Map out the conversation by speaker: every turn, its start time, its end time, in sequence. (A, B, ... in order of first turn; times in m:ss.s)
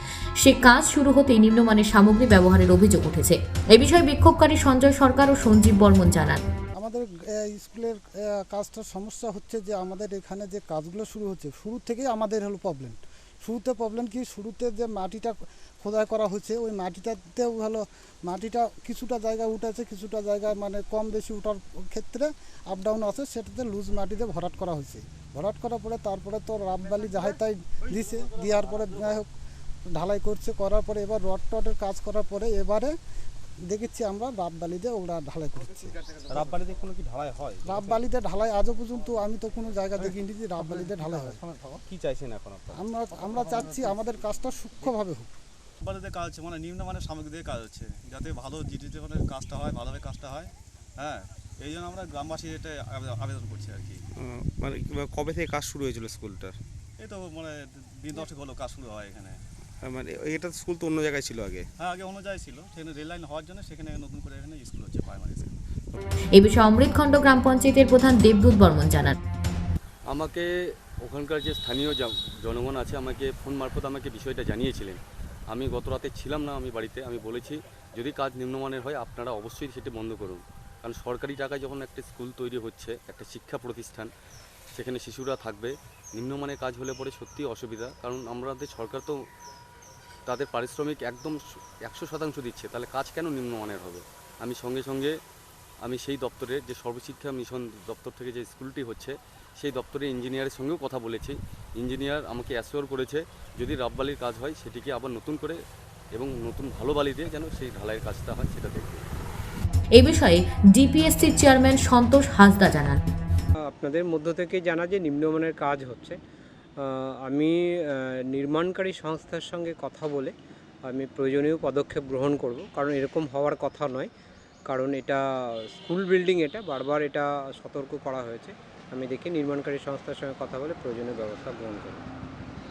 0:00.4-0:06.4 A
0:06.8-0:29.3 B
0:30.0-0:33.0 B
0:33.7-0:36.0 B
0:36.3-0:37.7 C
0:37.7-0:41.4 B
0:41.9-0:42.8 C
0:42.7-0:45.3 B
0:45.8-0:54.0 D
0:54.2-0:56.6 E
0:57.0-0:59.4 D
0:59.8-1:01.7 E
1:01.8-1:05.6 D
1:06.4-1:09.2 A
1:10.1-1:10.5 C
1:11.0-1:15.0 C
1:15.5-1:24.1 C
1:24.8-1:29.2 C
1:30.3-1:35.1 C
1:35.8-1:45.6 C
1:46.2-1:49.0 C
1:50.0-1:53.0 A
1:53.7-1:56.2 F
1:56.8-1:57.6 F
1:58.3-2:00.3 F
2:00.9-2:04.1 F
2:04.7-2:05.2 F
2:05.8-2:12.0 F